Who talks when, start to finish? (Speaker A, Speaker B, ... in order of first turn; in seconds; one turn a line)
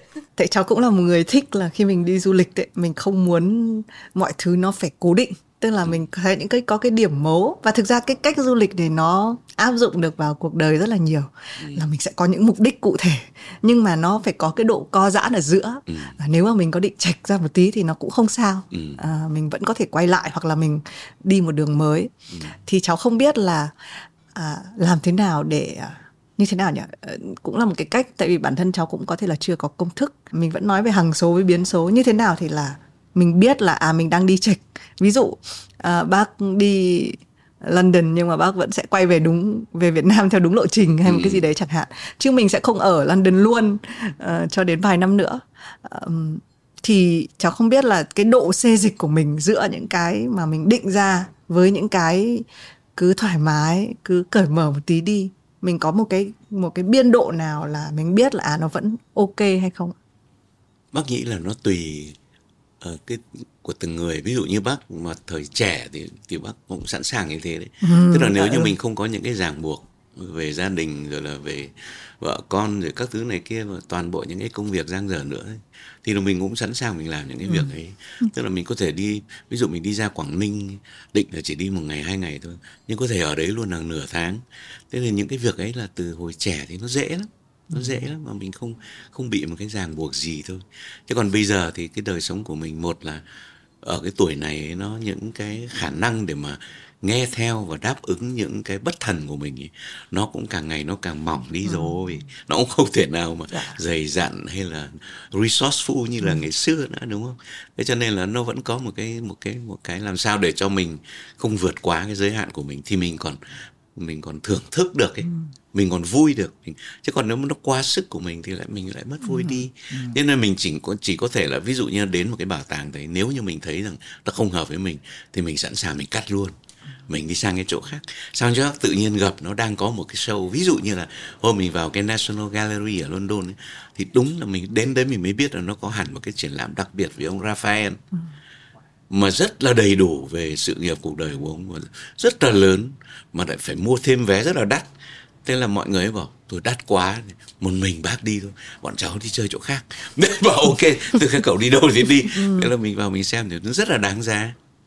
Speaker A: 0.3-22.1
Speaker B: 15.9-16.2
Speaker B: 18.7-19.0
Speaker B: 22.3-22.5
Speaker A: 22.6-59.9
Speaker B: 41.0-41.4
Speaker B: 60.9-62.2
Speaker B: 62.8-93.2
Speaker A: 67.8-68.7
Speaker B: 93.8-126.6
Speaker A: 119.3-120.1
Speaker B: 127.1-138.0
Speaker B: 139.1-144.9
Speaker B: 145.4-154.6
Speaker A: 152.3-152.7